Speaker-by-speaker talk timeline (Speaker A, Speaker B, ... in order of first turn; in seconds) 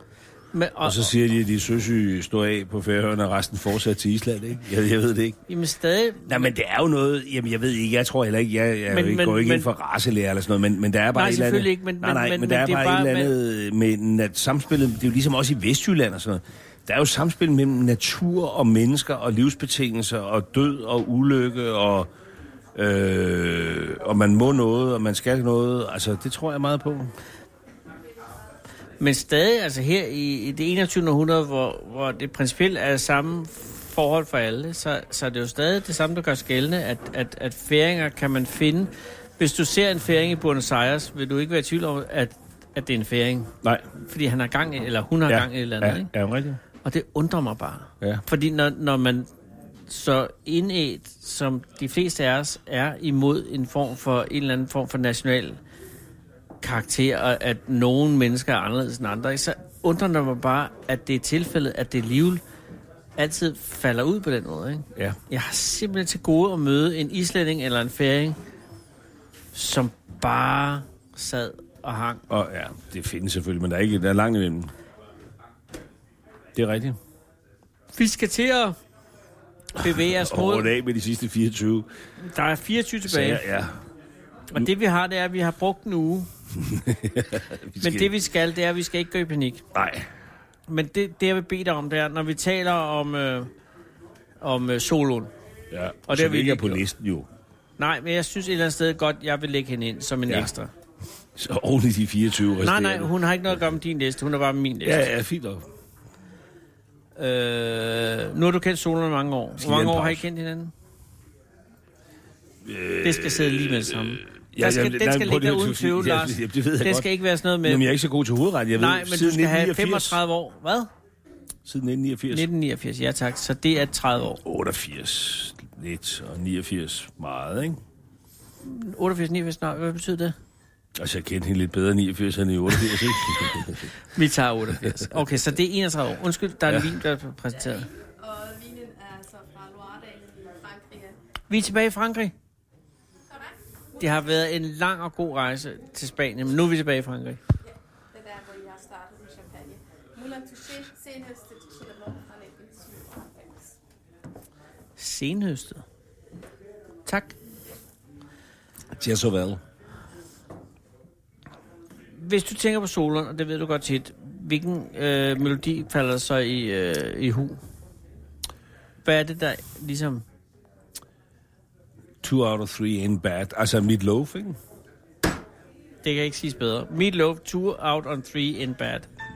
Speaker A: 0.5-1.1, 5.5-6.5, 8.9-9.7, 11.1-13.3, 29.0-46.1, 46.8-49.3, 49.9-55.6, 56.6-62.4, 63.1-68.4, 69.5-72.2, 77.9-78.8, 79.8-80.7, 82.2-83.4, 84.5-86.3, 87.8-89.6, 90.7-93.5, 94.4-95.3, 96.1-96.8, 97.8-100.7, 102.6-105.1, 107.2-110.7, 113.0-117.8, 118.7-120.9, 122.3-124.4, 128.6-130.3, 134.1-137.9, 141.5-142.3, 144.0-147.4, 155.0-155.8, 157.1-157.3, 162.2-167.6, 169.0-170.2, 176.0-179.1
Speaker B: 0.8-5.4, 6.2-22.1, 22.7-27.1, 45.3-46.6, 72.3-74.7, 76.5-77.0, 79.8-81.9, 83.0-83.8, 86.6-88.1, 89.7-90.1, 95.7-97.3, 101.3-103.6, 104.8-105.7, 109.6-110.2, 112.6-117.1, 117.6-120.2, 121.6-122.5, 124.4-127.8, 130.9-133.9, 134.8-135.1, 136.7-137.0, 158.9-159.6, 172.2-174.6
Speaker C: 137.7-141.2, 143.3-144.3, 147.6-153.8